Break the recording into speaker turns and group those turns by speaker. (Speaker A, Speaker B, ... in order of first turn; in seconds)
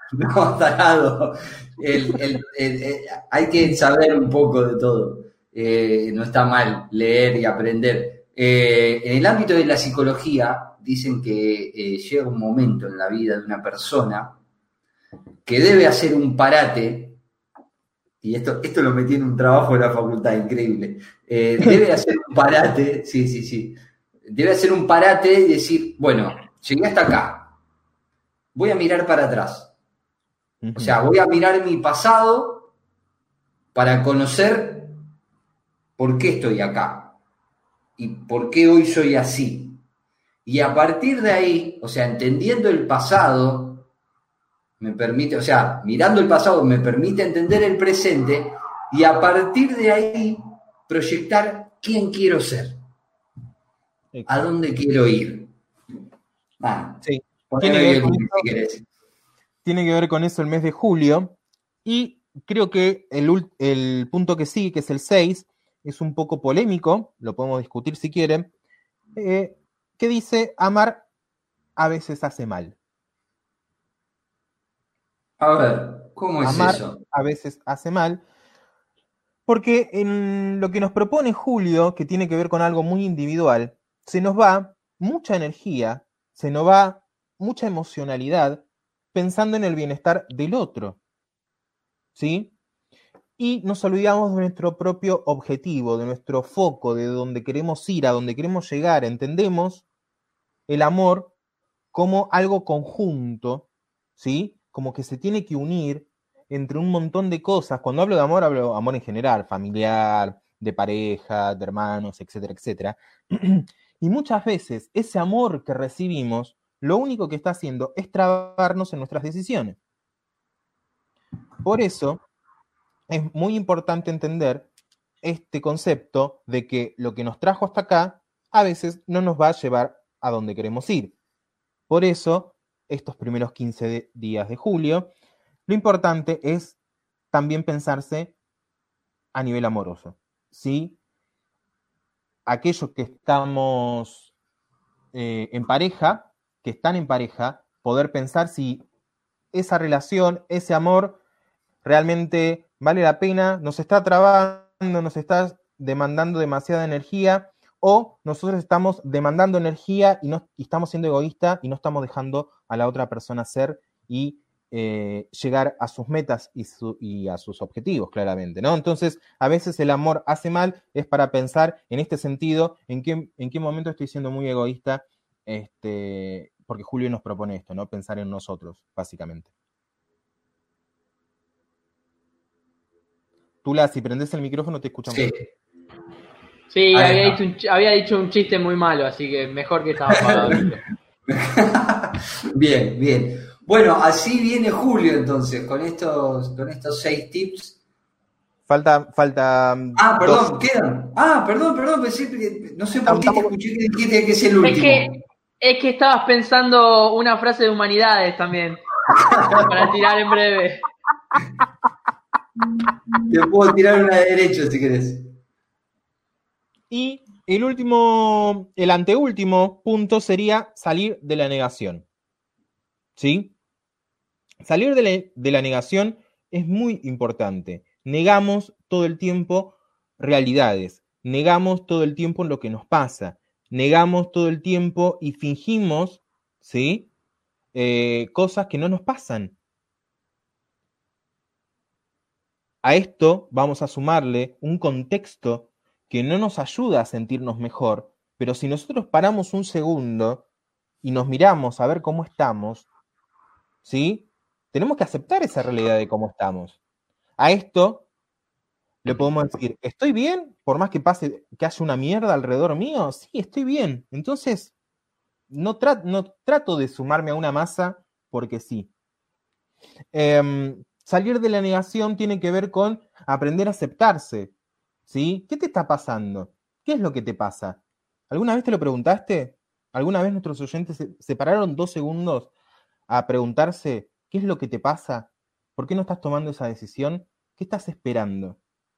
Speaker A: 0.1-14.4, 15.4-17.2, 18.2-27.5, 28.5-29.7, 30.8-32.7, 33.7-34.9, 36.0-37.1, 38.0-39.8, 40.5-43.9, 44.8-52.8, 54.3-55.5, 56.6-58.8, 75.4-77.0, 185.1-185.4, 186.9-187.4, 190.3-190.5, 191.3-197.8, 200.0-205.1, 209.1-209.9, 213.3-215.3
Speaker B: 30.6-30.9, 54.1-54.4, 57.0-58.5, 59.6-68.5, 69.2-71.0, 71.8-72.8, 76.4-78.2, 79.5-91.0, 92.1-92.5, 93.4-99.8, 100.7-101.3, 101.9-119.8, 121.6-122.2, 123.1-124.7, 125.2-131.1, 131.9-135.1, 135.7-136.8, 137.3-138.3, 139.3-141.0, 142.4-144.3, 145.1-148.8, 149.5-151.2, 151.8-179.5, 183.6-185.3, 198.7-200.6, 203.1-203.5, 216.9-222.0, 223.2-223.5, 224.6-237.1, 237.7-239.6, 242.8-250.4, 251.0-252.9, 253.8-256.8, 257.4-258.1, 259.0-264.7, 265.5-268.9, 270.1-274.5, 275.1-282.5, 283.1-288.6
Speaker C: 186.7-190.8, 204.6-208.9, 209.6-210.9